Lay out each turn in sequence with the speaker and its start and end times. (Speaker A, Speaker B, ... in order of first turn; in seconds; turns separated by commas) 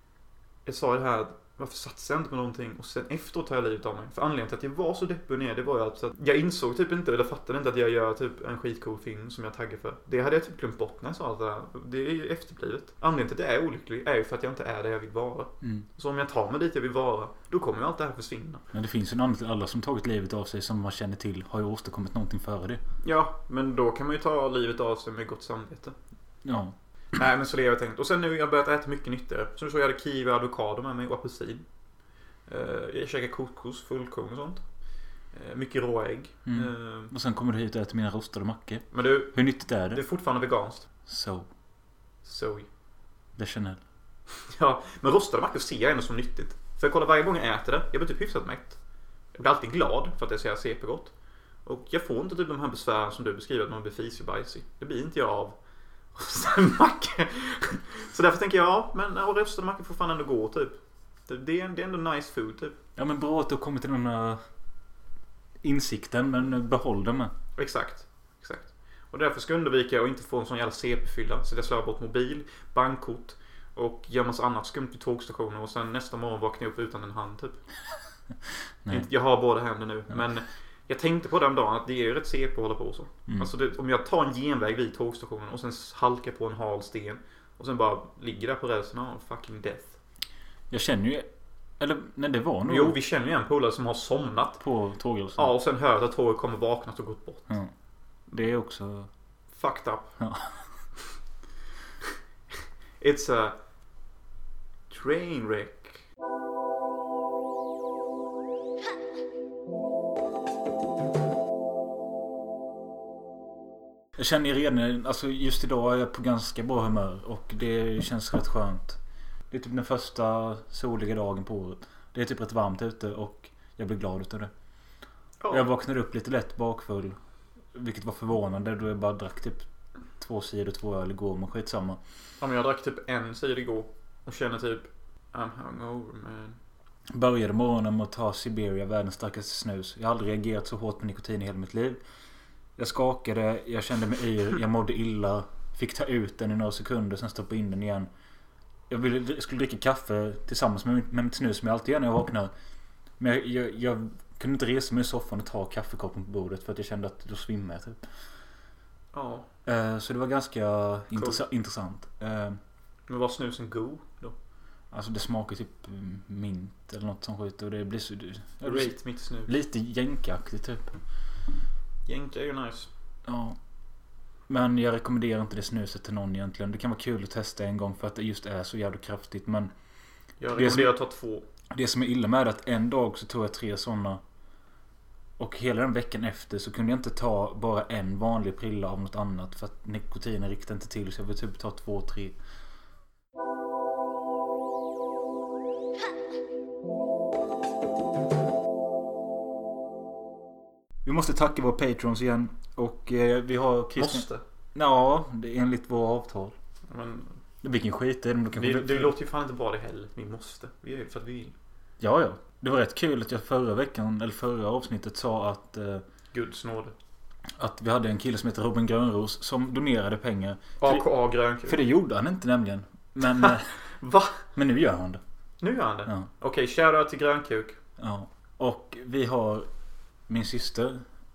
Speaker A: 0.7-18.6, Speaker B: 18.7-22.8, Speaker A: 23.0-25.9, Speaker B: 26.4-26.8, Speaker A: 27.1-31.6, Speaker A: 32.5-34.6, Speaker A: 35.3-37.1, Speaker B: 36.5-40.0, Speaker A: 38.9-40.9, Speaker B: 41.1-41.5, Speaker A: 42.2-42.7, Speaker B: 43.4-43.8, Speaker A: 44.5-48.8, Speaker A: 49.3-51.1, Speaker A: 51.6-55.6, Speaker A: 56.1-62.8, Speaker B: 63.0-64.4, Speaker B: 65.6-67.3, Speaker A: 67.6-77.6, Speaker A: 78.9-90.0, Speaker B: 83.3-83.5, Speaker B: 90.7-91.3, Speaker B: 91.8-93.0, Speaker A: 92.7-94.6, Speaker B: 94.6-95.5, Speaker A: 95.4-97.5, Speaker B: 98.3-99.1, Speaker A: 99.5-100.1, Speaker B: 100.2-100.6, Speaker A: 103.0-103.6, Speaker A: 104.9-106.0, Speaker B: 114.2-119.0, Speaker B: 119.5-124.5, Speaker A: 125.4-125.7, Speaker B: 125.5-127.2, Speaker B: 127.7-129.7, Speaker B: 130.2-132.0, Speaker A: 132.4-136.6, Speaker B: 137.1-142.0, Speaker B: 142.8-148.1, Speaker B: 148.9-152.5, Speaker B: 153.2-158.0, Speaker A: 159.1-159.5, Speaker B: 159.7-162.6, Speaker A: 161.2-161.4, Speaker A: 163.1-164.4, Speaker B: 164.9-171.0, Speaker A: 168.6-169.5, Speaker A: 172.1-172.9, Speaker B: 173.3-173.6, Speaker B: 174.5-179.7, Speaker A: 180.4-181.5, Speaker B: 180.6-180.9, Speaker B: 181.7-184.2, Speaker B: 185.4-192.4, Speaker B: 201.1-206.6, Speaker A: 204.0-204.4, Speaker A: 206.9-207.4, Speaker B: 207.6-209.1, Speaker A: 208.5-211.5, Speaker B: 212.0-216.0, Speaker A: 216.3-216.9, Speaker B: 217.6-221.1, Speaker A: 220.8-221.8, Speaker B: 221.7-223.7, Speaker A: 224.0-224.4, Speaker B: 224.5-225.2, Speaker A: 225.6-227.8, Speaker B: 228.0-229.7, Speaker B: 230.3-231.0